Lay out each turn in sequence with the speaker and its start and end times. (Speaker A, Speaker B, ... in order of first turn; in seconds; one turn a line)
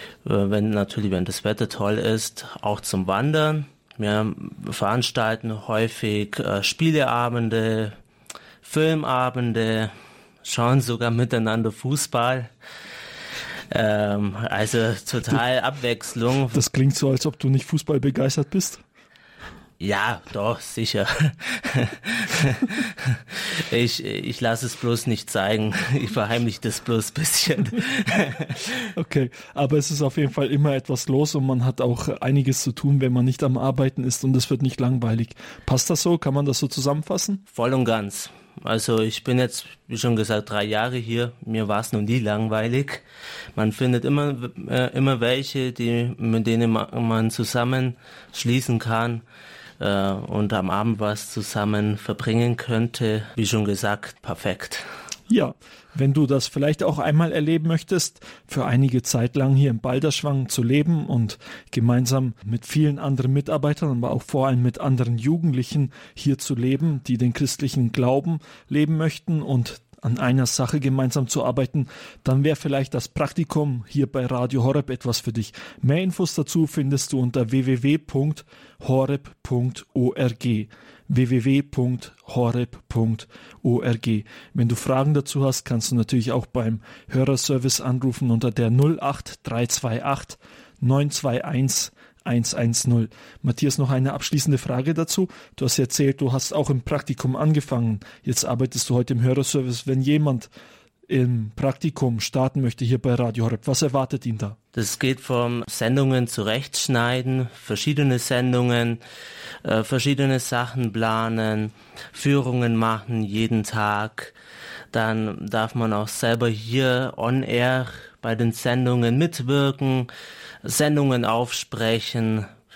Speaker A: 0.2-8.0
Speaker A: 8.6-9.9
Speaker A: 10.4-12.5
Speaker A: 13.7-16.7
Speaker B: 16.5-18.8
Speaker A: 19.8-28.9
Speaker B: 28.9-37.4
Speaker A: 37.5-43.0
Speaker A: 43.6-49.2
Speaker A: 49.8-54.8
Speaker B: 55.3-100.5
Speaker B: 101.1-104.6
Speaker A: 104.7-109.0
Speaker A: 109.7-114.3
Speaker A: 114.9-120.1
Speaker A: 120.6-122.5